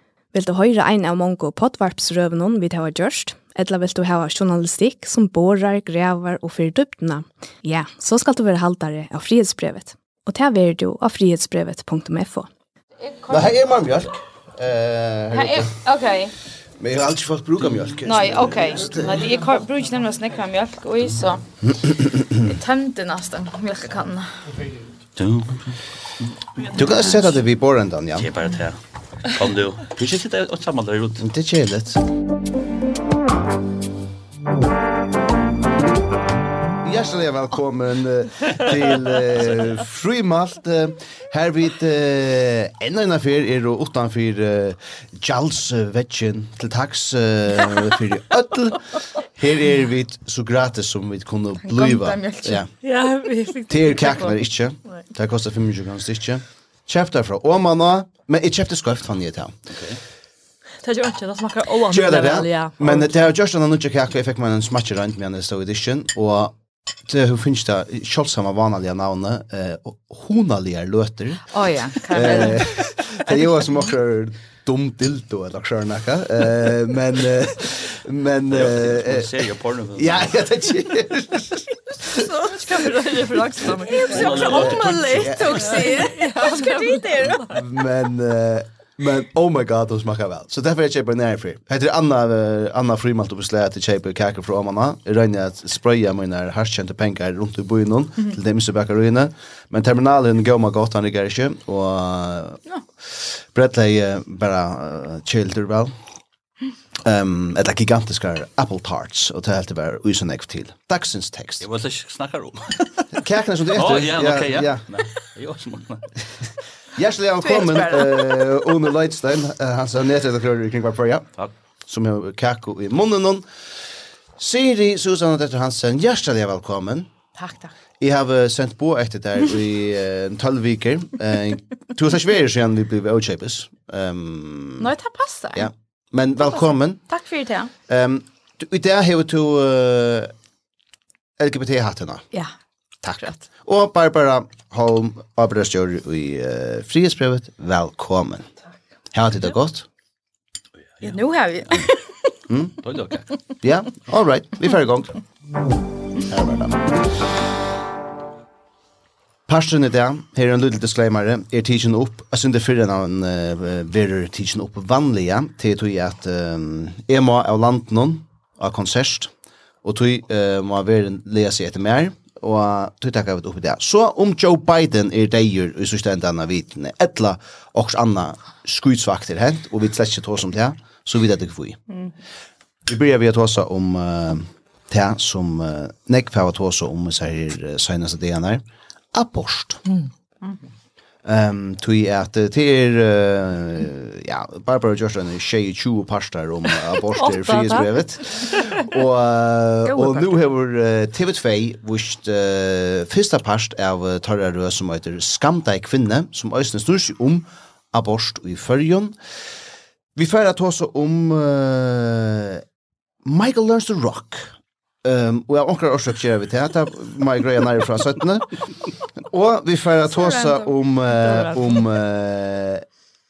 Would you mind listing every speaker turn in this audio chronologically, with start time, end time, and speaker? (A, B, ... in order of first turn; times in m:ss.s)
0:00.3-0:12.5 A
0:13.0-0:13.5 B
0:13.3-0:15.7 C
0:15.3-0:16.3 B
0:16.8-0:19.3 C
0:18.0-0:21.4 B
0:21.7-0:22.4 C
0:22.4-0:24.4 B
0:25.2-0:27.0 D
0:26.7-0:28.3 C
0:28.2-0:31.2 D
0:31.2-0:32.0 C
0:36.8-0:52.7 C
0:51.6-0:52.6 B
0:52.8-0:54.3 E
0:53.7-0:59.6 C
0:59.7-1:00.0 D
1:00.8-1:03.1 E
1:01.9-1:06.5 C
1:07.1-1:22.3 C
1:11.5-1:12.6 B
1:18.5-1:20.4 D
1:22.3-1:24.7 E
1:23.8-1:27.6 B
1:24.1-1:25.1 D
1:24.3-1:26.0 C
1:25.5-1:27.3 E
1:27.4-1:46.0 C
1:47.0-1:51.7 C
1:51.6-1:56.2 D
1:53.1-1:54.8 C
1:56.9-2:01.3 C
1:57.4-1:58.7 B
2:01.9-2:03.4 C
2:04.4-2:07.1 C
2:07.4-2:07.7 B
2:08.0-2:14.9 C
2:14.8-2:15.7 B
2:15.5-2:17.0 C
2:17.1-2:17.7 B
2:17.9-2:20.3 C
2:21.4-2:22.3 C
2:23.0-2:28.5 C
2:29.1-2:29.9 C
2:31.0-2:32.1 B
2:32.5-2:32.7 C
2:32.8-2:33.3 D
2:33.6-2:35.2 C
2:36.2-2:37.0 C
2:39.5-2:49.3 C
2:49.8-3:01.8 C
3:02.8-3:09.8 C
3:11.2-3:29.1 C
3:17.2-3:17.9 E
3:19.9-3:20.3 B
3:30.2-3:32.6 C
3:33.2-3:42.8 C
3:40.1-3:40.7 B